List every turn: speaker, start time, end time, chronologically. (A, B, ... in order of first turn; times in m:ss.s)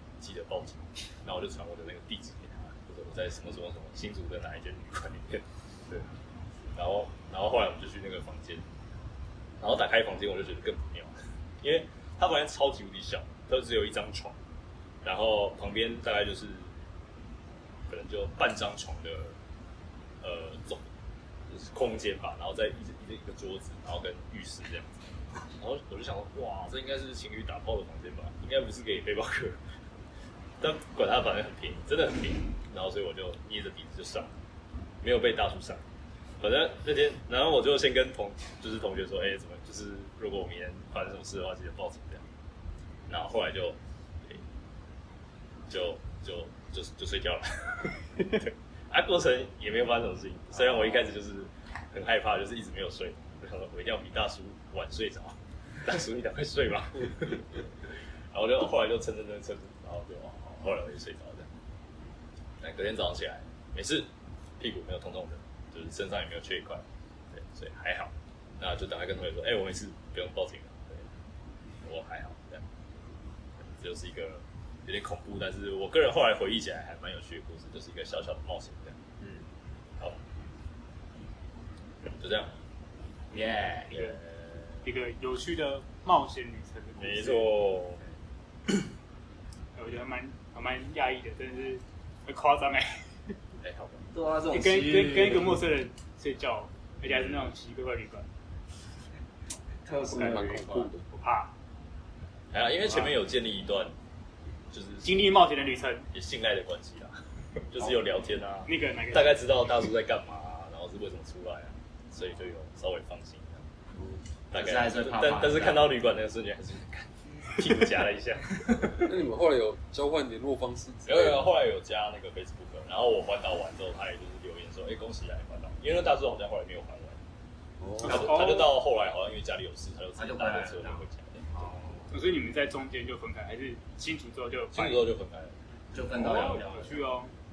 0:00.2-0:06.1 A
0:06.7-0:08.6 A
0:09.6-0:14.4 A
0:15.0-0:16.7 A
0:17.9-0:19.4 A
0:20.2-0:20.9 A
0:21.5-0:29.6 A
0:30.6-0:34.3 A
0:35.0-0:35.8 A
0:36.4-0:42.2 A
0:43.1-0:44.4 A
0:45.7-0:57.7 A
0:58.3-1:01.5 A
1:02.6-1:11.1 A
1:11.8-1:12.6 A
1:13.6-1:19.0 A
1:19.2-1:19.4 B
1:22.0-1:22.5 A
1:23.3-1:24.2 B
1:23.9-1:24.2 C
1:24.8-1:27.5 C
1:27.0-1:28.0 A
1:29.8-1:33.3 C
1:33.6-1:34.1 A
1:34.1-1:35.6 B
1:34.5-1:38.3 C
1:37.0-1:37.5 A
1:39.8-1:40.9 B
1:40.1-1:41.1 D
1:41.1-1:41.5 C
1:42.5-1:43.9 A
1:44.7-1:45.3 A
1:45.0-1:46.0 C
1:46.1-1:53.7 A
1:48.6-1:49.4 C
1:54.0-1:54.2 D
1:54.5-1:59.1 A
1:54.5-1:55.9 B
1:59.0-2:01.5 D
2:01.0-2:07.2 A
2:07.8-2:08.3 D
2:08.0-2:11.5 A
2:08.1-2:08.7 C
2:10.2-2:12.1 B
2:12.1-2:15.1 C
2:14.7-2:15.5 A
2:15.9-2:17.1 B
2:16.1-2:16.6 A
2:16.2-2:17.3 C